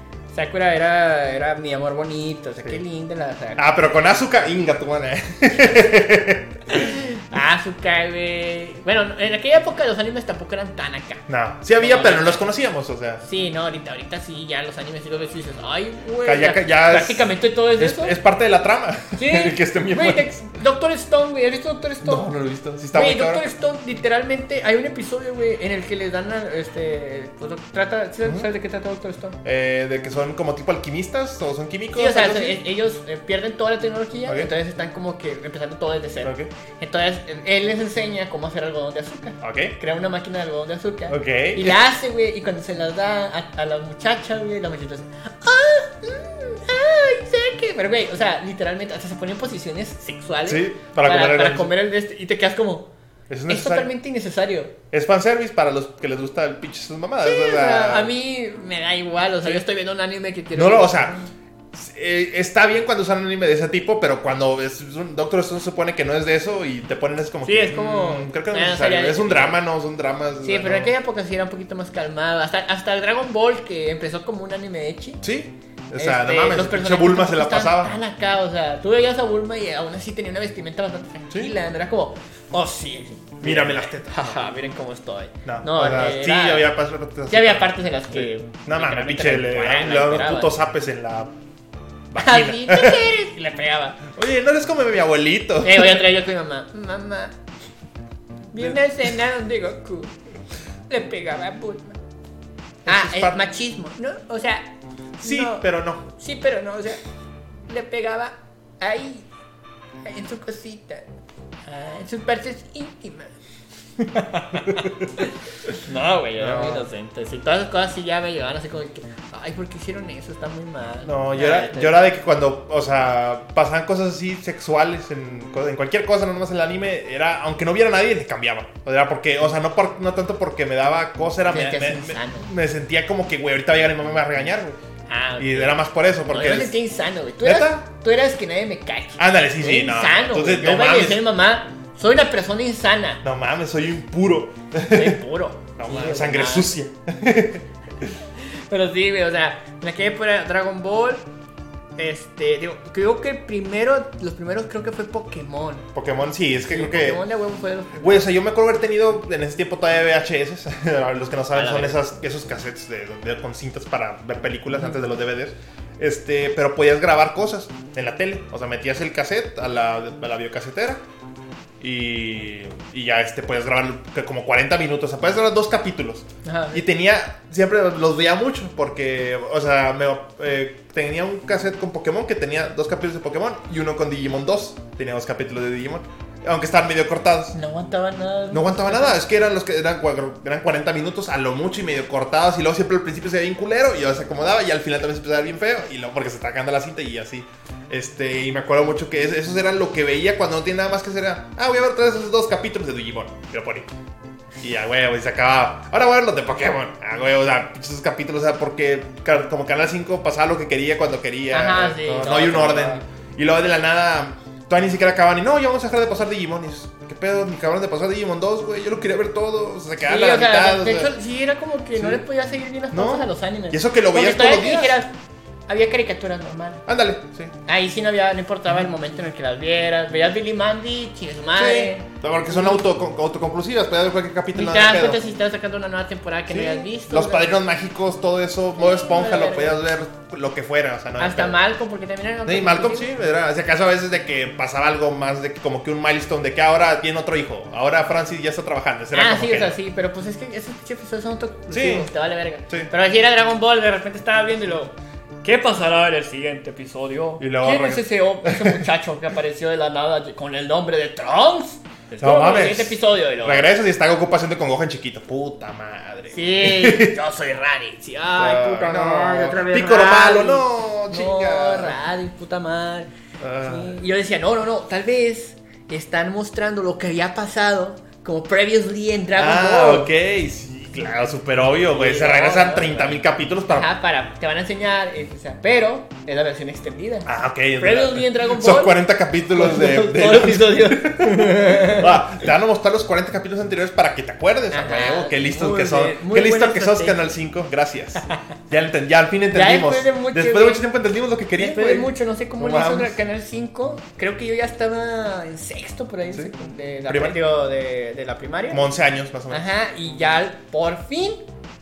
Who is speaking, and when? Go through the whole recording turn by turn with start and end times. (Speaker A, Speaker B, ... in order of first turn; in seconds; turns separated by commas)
Speaker A: 0.3-3.6, Speaker B: 3.6-7.0, Speaker A: 6.7-11.2, Speaker B: 11.3-13.2, Speaker A: 11.8-12.5, Speaker A: 13.2-18.1, Speaker B: 16.2-20.2, Speaker A: 19.1-22.2, Speaker B: 22.0-23.5, Speaker A: 22.9-29.4, Speaker B: 29.4-32.6, Speaker A: 31.9-52.9, Speaker B: 36.2-36.5, Speaker B: 39.4-39.8, Speaker B: 41.1-41.8, Speaker B: 50.5-51.7, Speaker B: 53.3-53.9, Speaker A: 53.5-54.7, Speaker B: 54.9-58.1, Speaker A: 57.2-61.3, Speaker B: 60.5-61.1, Speaker B: 61.7-70.9, Speaker A: 67.4-69.6, Speaker A: 70.4-75.2, Speaker B: 75.2-77.9, Speaker A: 76.0-86.7, Speaker B: 83.4-84.3, Speaker B: 85.4-91.3, Speaker A: 87.3-90.5, Speaker B: 92.1-93.1, Speaker A: 92.2-94.0, Speaker B: 94.1-96.0, Speaker A: 95.6-97.3, Speaker A: 98.5-100.2, Speaker A: 100.9-102.0, Speaker B: 102.8-103.4, Speaker A: 102.8-107.0, Speaker B: 105.2-106.0, Speaker A: 107.7-109.3, Speaker A: 110.0-111.0, Speaker A: 111.7-113.3, Speaker A: 114.0-122.0, Speaker B: 116.4-116.9, Speaker B: 121.0-134.8, Speaker A: 131.5-132.5, Speaker A: 135.1-143.2, Speaker B: 135.4-136.8, Speaker B: 137.4-137.8, Speaker B: 139.2-141.2, Speaker B: 143.2-145.2, Speaker A: 144.9-146.7, Speaker B: 145.8-148.1, Speaker A: 148.4-151.3, Speaker A: 152.0-155.9, Speaker B: 155.9-157.2, Speaker A: 156.6-158.3, Speaker B: 157.9-171.0, Speaker A: 161.5-162.0, Speaker B: 171.8-187.5, Speaker A: 176.4-176.8, Speaker A: 187.5-189.2, Speaker B: 188.5-203.9, Speaker B: 204.6-221.1, Speaker A: 211.5-213.0, Speaker A: 220.1-225.1, Speaker B: 221.9-222.2, Speaker B: 222.9-225.0, Speaker A: 225.7-226.8, Speaker B: 226.9-227.5, Speaker A: 227.7-232.8, Speaker B: 231.5-235.2, Speaker A: 234.5-237.6, Speaker B: 236.5-241.6, Speaker A: 238.8-239.8, Speaker A: 241.2-243.1, Speaker B: 242.4-249.7, Speaker A: 249.1-263.7, Speaker B: 251.7-252.1, Speaker B: 257.4-258.8, Speaker B: 262.2-267.2, Speaker A: 266.3-273.1, Speaker B: 268.4-271.9, Speaker B: 273.4-274.0, Speaker A: 273.6-280.1, Speaker B: 279.4-283.9, Speaker A: 281.9-289.0, Speaker B: 287.2-303.2, Speaker A: 289.5-292.2, Speaker A: 294.7-297.2, Speaker A: 299.5-300.8, Speaker A: 301.6-308.8, Speaker B: 307.1-307.4, Speaker B: 308.7-309.7, Speaker A: 309.5-311.4